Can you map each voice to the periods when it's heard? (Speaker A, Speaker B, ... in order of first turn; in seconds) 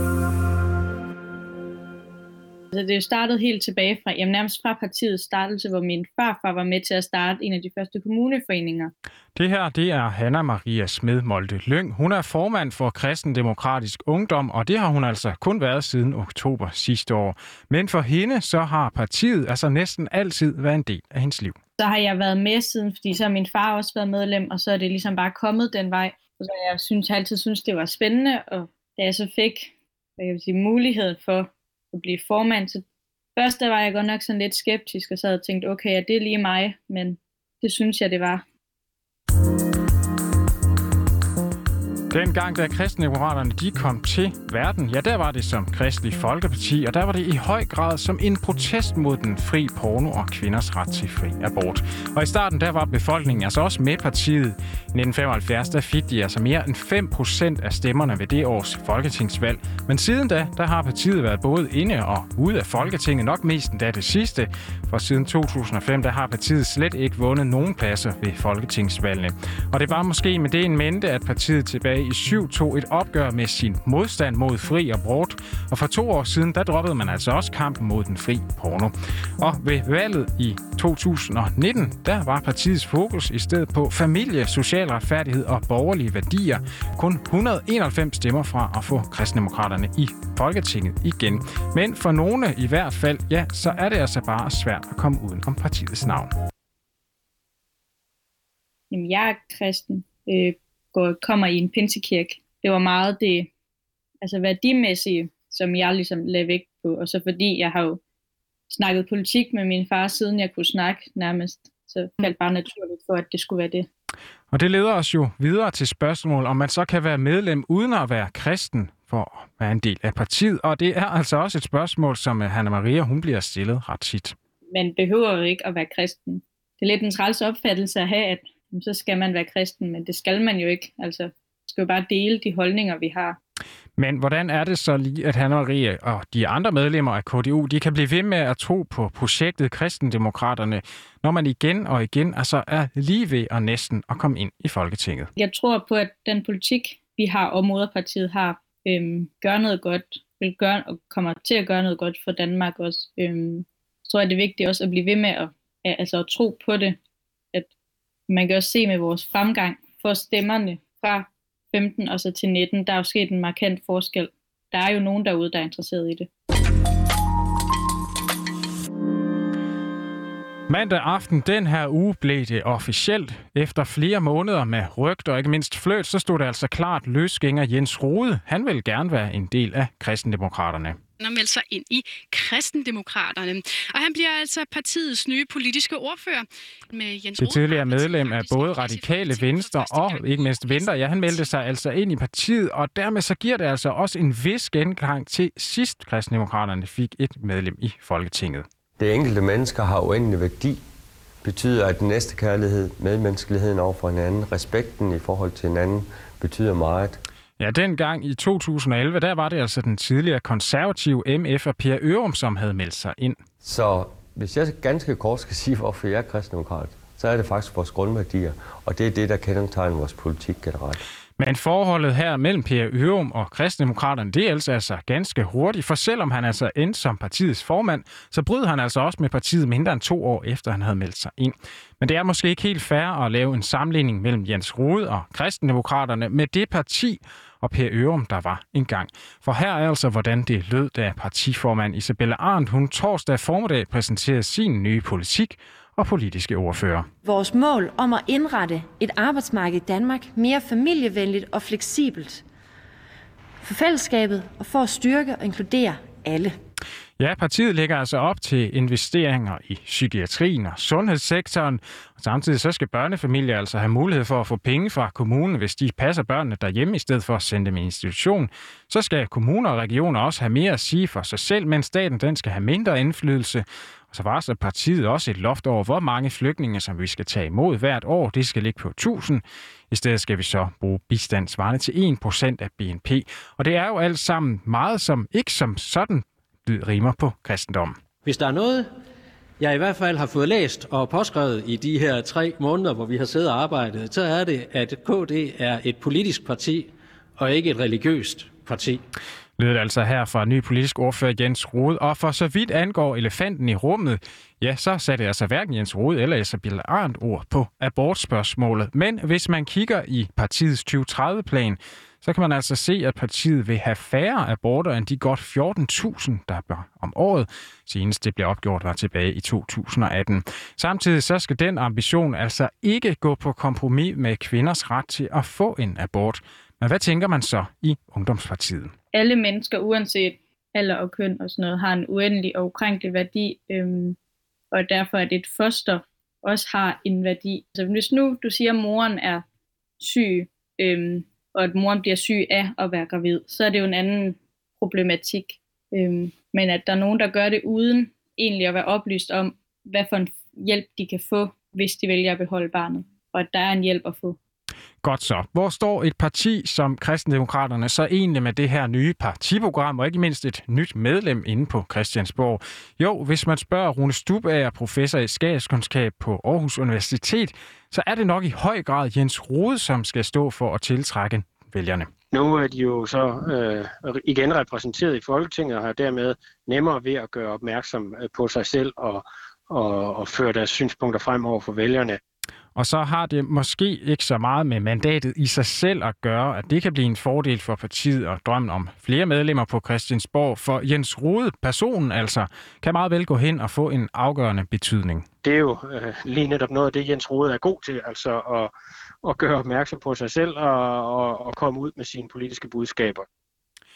Speaker A: 2.7-8.9, 21.8-32.9, 33.4-38.4, 98.9-103.5, 104.2-108.0, 108.7-113.9, 124.7-133.4, 145.4-157.0, 158.3-166.3, 329.1-334.2, 334.7-339.4, 340.0-354.4
Speaker B: 9.3-21.6, 42.1-96.3, 114.5-124.3, 134.0-145.3, 170.7-181.0, 187.4-198.7, 207.6-213.4, 221.4-247.1, 257.2-288.0, 299.6-328.9, 355.0-372.1, 382.8-395.2
Speaker C: 181.2-191.5
Speaker D: 199.0-200.8, 201.4-207.2, 213.6-221.0
Speaker E: 247.2-252.4, 253.6-256.6
Speaker F: 288.2-288.9, 289.6-299.0
Speaker G: 372.3-382.2, 395.4-398.7, 399.2-403.3